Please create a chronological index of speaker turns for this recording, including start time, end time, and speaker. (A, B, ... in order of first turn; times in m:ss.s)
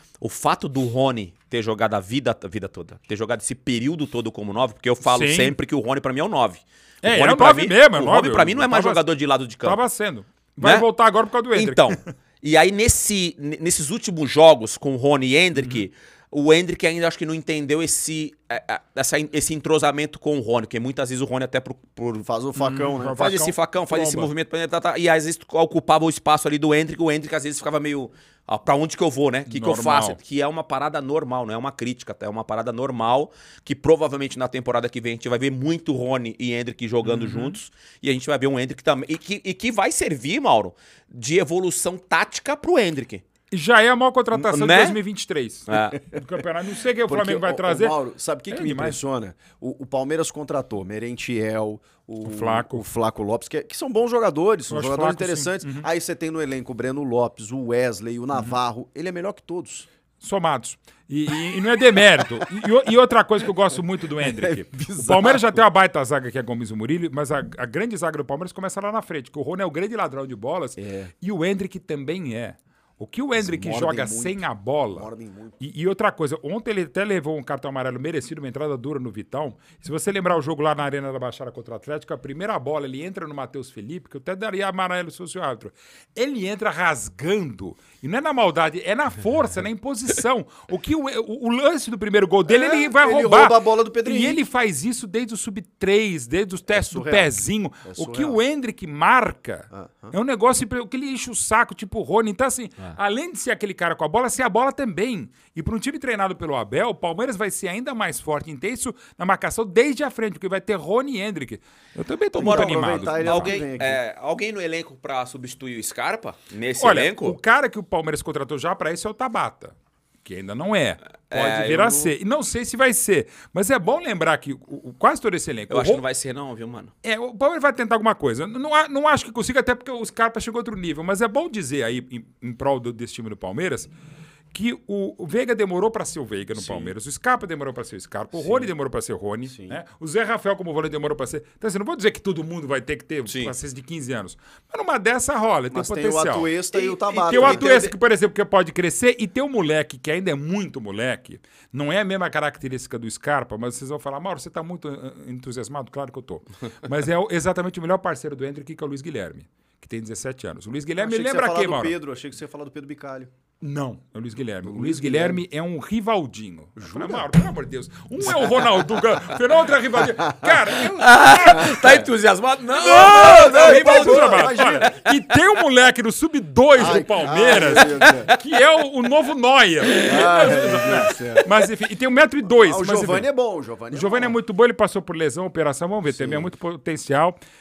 0:00.2-0:09.8 A
0:05.0-0:05.5 B
0:07.0-0:09.0 B
0:09.6-0:12.0 B
0:10.6-0:10.9 A
0:11.5-0:22.2 A
0:15.6-0:15.8 B
0:22.2-0:23.3 C
0:22.6-0:24.3 B
0:23.1-0:43.2 A
0:29.5-0:30.2 B
0:37.0-0:37.6 B
0:43.5-0:48.0 B
0:44.3-0:45.0 A
0:45.7-0:46.0 A
0:47.1-0:59.9 C
0:48.5-0:49.0 B
0:52.2-0:52.8 B
0:54.7-0:55.9 B
1:00.2-1:15.1 B
1:04.2-1:05.5 C
1:10.8-1:11.1 C
1:13.4-1:14.4 C
1:14.9-1:15.6 C
1:15.6-1:53.6 B
1:32.4-1:34.4 C
1:36.7-1:37.3 C
1:37.8-1:38.4 C
1:39.7-1:40.1 C
1:52.3-1:54.0 C
1:52.4-1:57.4 A
1:56.8-2:06.0 B
2:01.3-2:02.1 A
2:05.7-2:06.9 A
2:07.0-2:13.9 B
2:14.5-2:26.5 B
2:18.4-2:18.7 C
2:19.5-2:19.8 C
2:23.3-2:23.5 A
2:25.7-2:27.7 C
2:26.7-2:27.9 A
2:27.3-2:42.0 B
2:41.0-2:43.3 C
2:43.6-2:52.0 B
2:44.6-2:45.4 C
2:46.8-2:47.3 C
2:51.0-2:55.1 A
2:52.8-2:54.9 C
2:52.8-3:03.3 B
2:56.8-2:58.3 C
2:57.8-2:58.4 A
2:59.9-3:00.2 A
3:00.0-3:01.4 C
3:02.4-3:04.3 C
3:03.9-3:07.4 B
3:06.1-3:06.5 C